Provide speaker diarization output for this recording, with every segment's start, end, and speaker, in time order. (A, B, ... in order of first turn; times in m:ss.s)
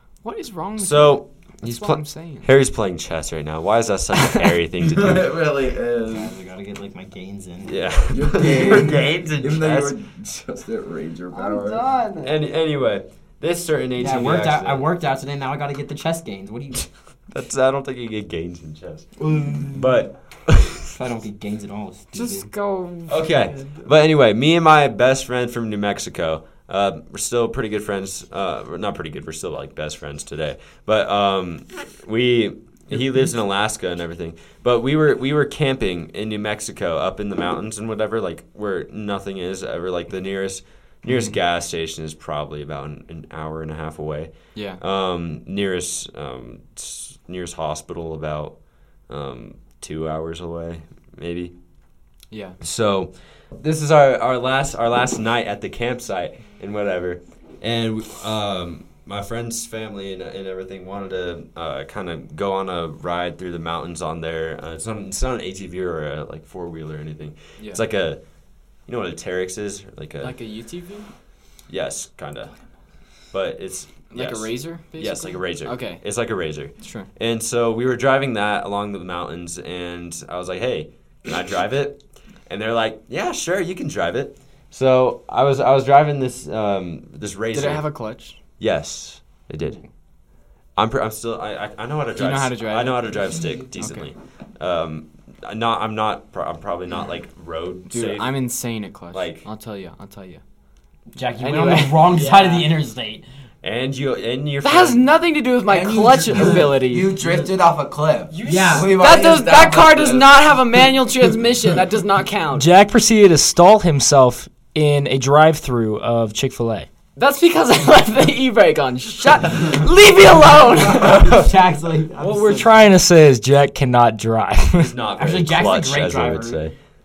0:00.2-0:02.5 A
0:00.8-0:05.3 B
0:04.8-0:06.3 C
0:06.1-0:07.8 D
0:07.6-0:09.9 B
0:08.1-0:11.8 C
0:11.3-0:12.4 A
0:12.2-0:14.8 B
0:14.0-0:16.9 D
0:17.3-0:19.1 B
0:19.2-0:19.8 D
0:19.3-0:19.6 C
0:19.7-0:20.8 B
0:20.9-0:22.5 D
0:22.1-0:23.8 A
0:23.1-0:48.5 B
0:44.5-0:44.8 A
0:49.1-0:51.5 B
0:52.3-0:52.6 A
0:52.6-1:08.2 B
1:08.8-1:10.3 B
1:10.2-1:11.0 A
1:11.7-1:12.5 B
1:13.3-1:27.8 B
1:14.1-1:16.0 A
1:16.8-1:17.1 A
1:27.5-1:28.4 A
1:28.6-1:29.8 B
1:30.8-1:38.3 B
1:32.1-1:34.1 A
1:37.9-1:40.4 A
1:39.1-1:39.4 B
1:41.1-1:43.2 D
1:41.4-1:42.2 A
1:42.1-1:42.7 E
1:43.6-1:45.0 B
1:44.6-1:47.1 A
1:45.7-1:50.3 C
1:48.3-1:49.0 D
1:48.5-1:48.8 E
1:48.8-1:52.7 A
1:52.6-1:56.9 E
1:57.2-2:01.3 A
2:00.9-2:02.6 D
2:02.2-2:04.9 E
2:04.8-2:06.7 B
2:05.2-2:06.6 D